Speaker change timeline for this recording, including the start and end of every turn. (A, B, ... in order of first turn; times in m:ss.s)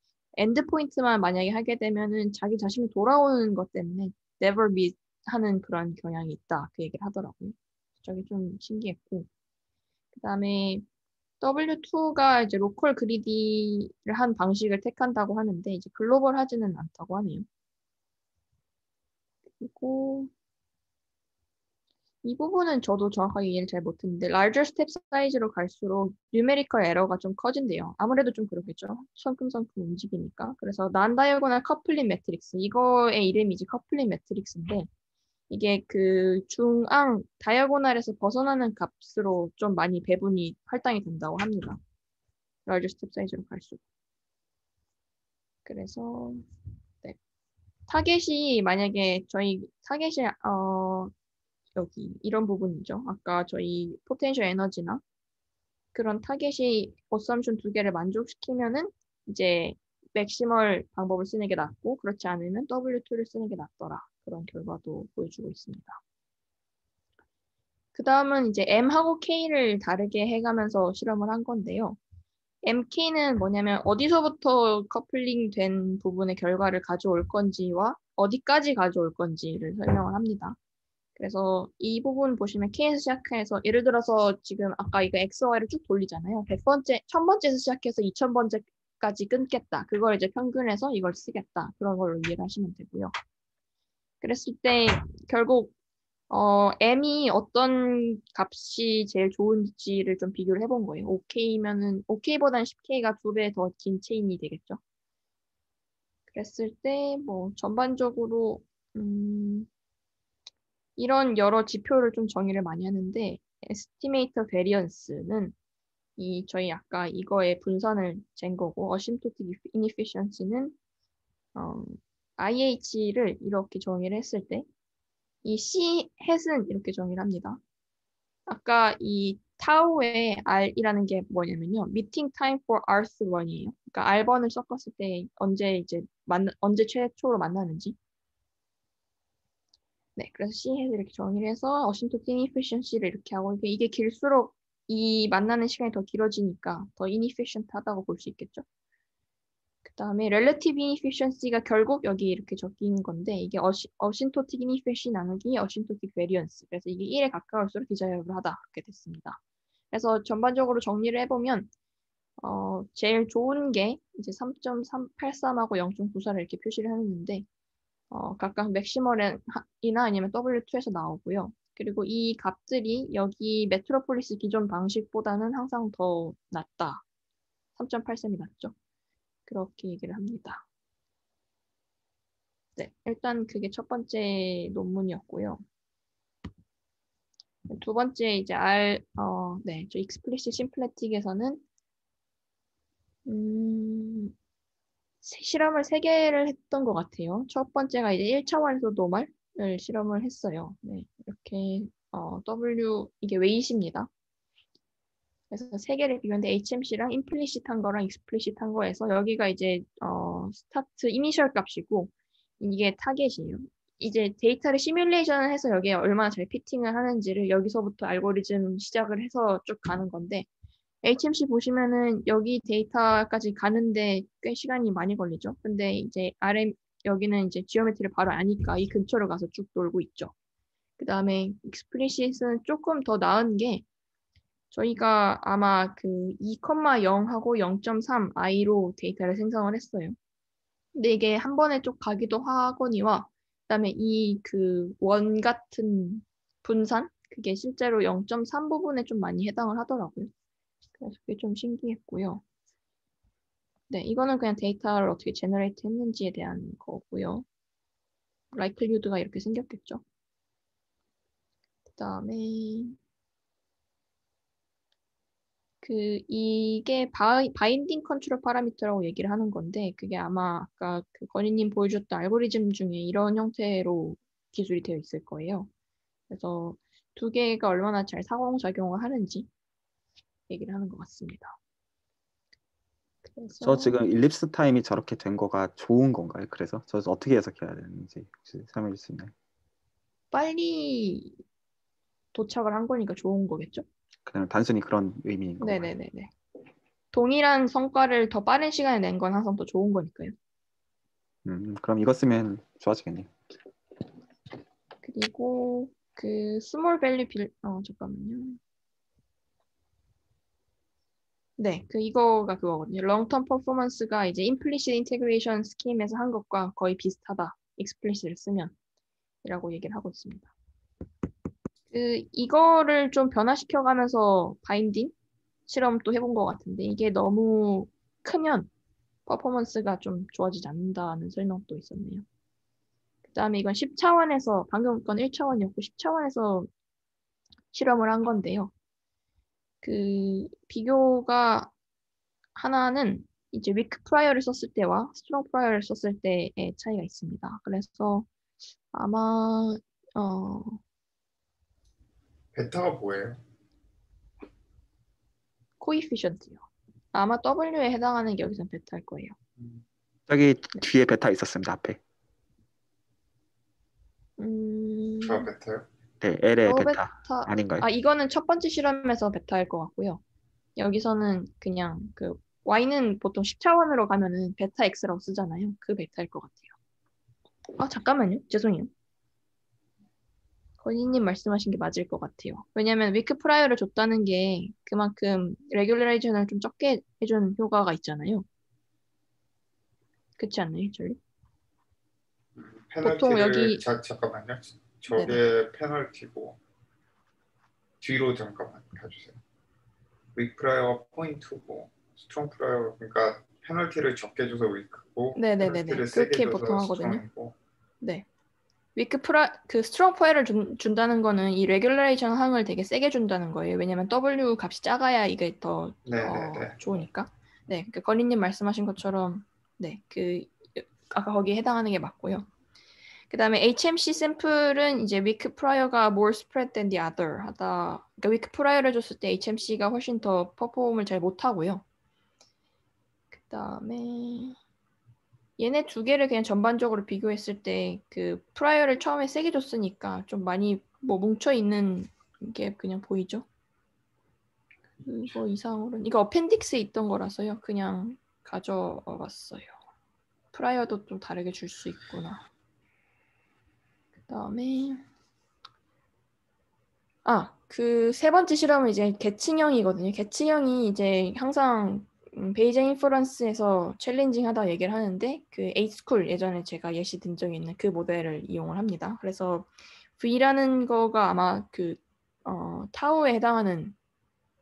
0:00.4-0:09.3 A
0:10.1-0:10.8 A
0:11.4-0:17.5 A
0:19.6-0:20.3 A
0:22.2-0:34.9 A
0:35.5-0:41.8 A
0:42.7-0:43.8 A
0:45.7-0:46.4 A
0:47.9-0:51.1 A
0:51.8-0:55.0 A
0:55.9-1:06.0 A
1:08.0-1:12.0 A
1:12.6-1:20.6 A
1:21.2-1:33.1 A
1:34.2-1:35.7 A
1:36.3-1:44.8 A
1:46.3-1:49.7 A
1:51.0-1:55.6 A
1:56.2-2:00.8 A
2:01.6-2:04.7 A
2:05.4-2:07.6 A
2:08.5-2:18.0 A
2:20.2-2:28.6 A
2:29.8-2:39.4 A
2:39.9-2:41.7 A
2:42.4-2:47.5 A
2:48.1-2:57.0 A
2:57.8-2:58.7 A
2:59.5-3:00.6 A
3:02.8-3:05.6 A
3:07.7-3:11.6 A
3:13.3-3:14.3 A
3:15.2-3:24.1 A
3:25.5-3:40.5 A
3:41.0-3:50.3 A
3:51.0-3:53.8 A
3:54.7-4:00.2 A
4:01.0-4:10.3 A
4:11.0-4:12.4 A
4:13.9-4:17.4 A
4:18.5-4:20.0 A
4:22.0-4:23.0 A
4:25.8-4:35.7 A
4:36.3-4:39.5 A
4:40.5-4:41.6 A
4:43.3-4:43.9 A
4:43.6-4:49.3 B
4:50.3-4:51.4 A
4:52.3-4:53.8 A
4:54.3-4:55.9 B
4:55.6-4:56.3 A
4:57.1-5:00.3 A
5:01.4-5:03.3 B
5:05.0-5:08.6 A
5:11.6-5:18.7 A
5:19.4-5:20.5 A
5:21.9-5:25.1 A
5:25.7-5:28.7 A
5:29.3-5:32.2 A
5:33.3-5:36.7 A
5:37.7-5:38.7 A
5:39.8-5:41.7 A
5:42.6-5:48.3 A
5:48.9-5:50.8 A
5:52.5-5:53.4 C
5:55.8-5:59.4 A
6:00.3-6:02.0 B
6:04.4-6:05.5 A
6:05.2-6:05.9 C
6:06.2-6:07.9 B
6:06.7-6:10.2 A
6:10.8-6:16.7 A
6:17.8-6:18.9 A
6:20.8-6:28.5 A
6:30.4-6:31.2 A
6:32.6-6:36.6 C
6:33.0-6:33.8 A
6:35.1-6:35.4 A
6:38.0-6:39.4 C
6:40.4-6:47.6 C
6:45.4-6:47.2 A
6:49.0-7:02.5 A
6:56.1-6:56.8 C
7:03.3-7:11.8 A
7:13.3-7:14.6 A
7:15.6-7:23.4 A
7:25.0-7:29.8 A
7:30.5-7:32.4 A
7:34.3-7:35.0 A
7:37.2-7:54.0 A